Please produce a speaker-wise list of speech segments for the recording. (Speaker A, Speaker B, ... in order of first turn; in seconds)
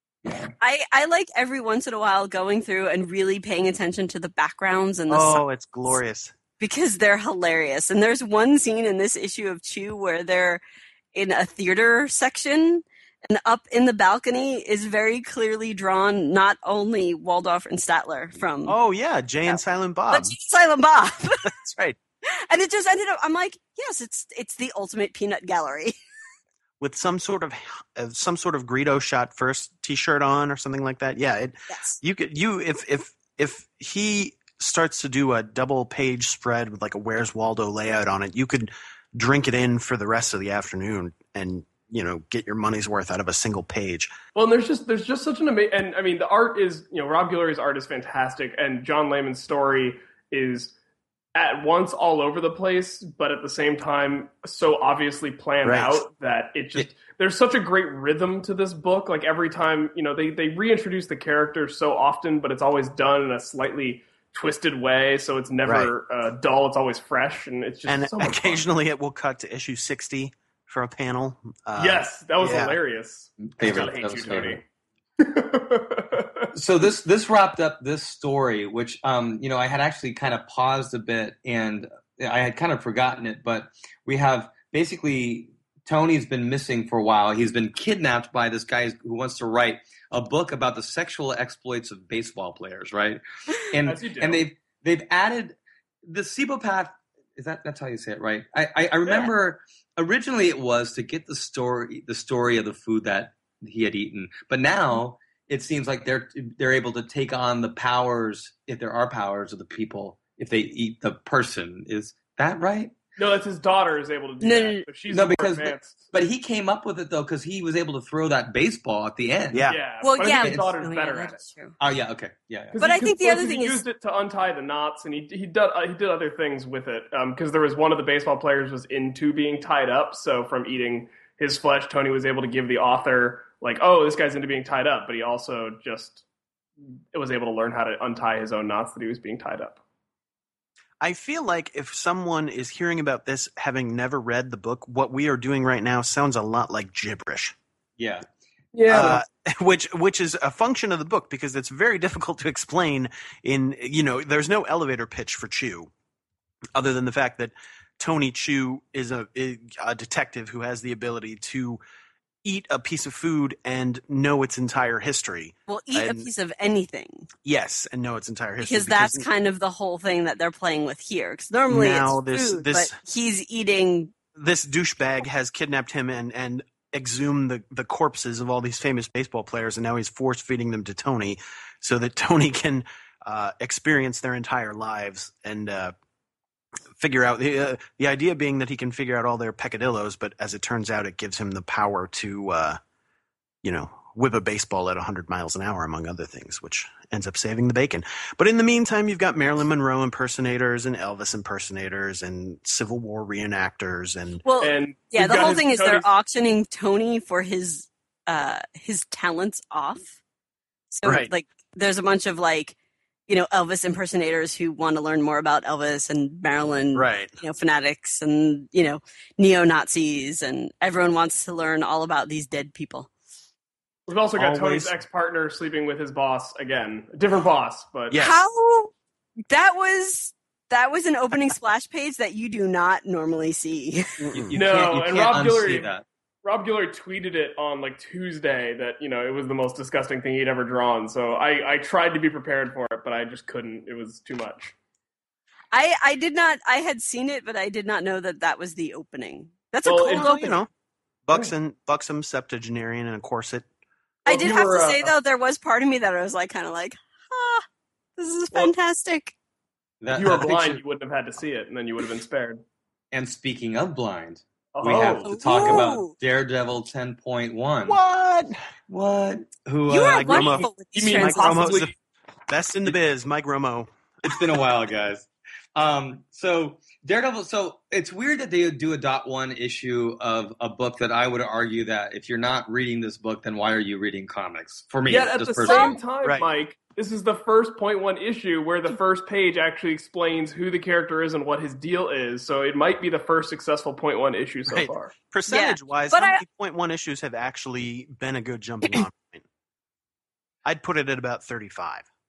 Speaker A: 0.6-6.0, 6.6-10.6, 11.1-18.7, 20.1-21.5, 22.5-25.9, 31.7-32.0, 114.4-114.8, 120.0-121.8, 122.8-123.8, 165.7-167.3, 168.6-174.1, 204.4-210.2, 210.9-212.7, 213.3-223.1, 228.2-228.9, 229.5-234.1, 245.7-250.6, 254.2-257.6, 258.2-259.3, 265.2-266.1, 269.9-271.9, 285.7-286.0, 295.5-296.4
Speaker B: 5.1-6.3, 18.6-20.3, 21.4-22.0, 26.8-44.1, 55.6-56.0, 65.6-65.9, 67.9-72.8, 119.5-119.8, 141.0-147.5, 148.9-155.9, 156.7-161.8, 162.4-166.3, 167.4-169.3, 171.7-173.0, 174.3-185.9, 187.0-192.8, 193.6-204.4, 211.0-211.3, 216.9-217.4, 224.3-224.9, 234.2-234.6, 250.1-250.7, 251.3-253.7, 267.8-268.6, 270.0-271.9, 272.5-273.9, 294.7-299.4, 300.6-302.1
Speaker C: 44.3-50.7, 51.3-68.6, 71.8-74.6, 75.2-76.5, 93.8-94.5, 113.2-116.1, 119.7-121.4, 122.7-136.2, 137.1-139.8, 148.7-149.2, 204.6-206.1, 224.1-228.2, 234.5-235.9, 236.4-244.7, 249.8-250.6, 254.2-255.1, 260.1-262.6, 264.7-265.8, 270.9-271.9, 285.1-295.1
Speaker D: 73.4-74.6, 76.5-113.0, 115.1-119.7, 121.8-122.8, 148.0-148.2, 234.5-236.0, 260.0-260.8, 263.1-268.0, 268.9-270.6, 274.2-286.0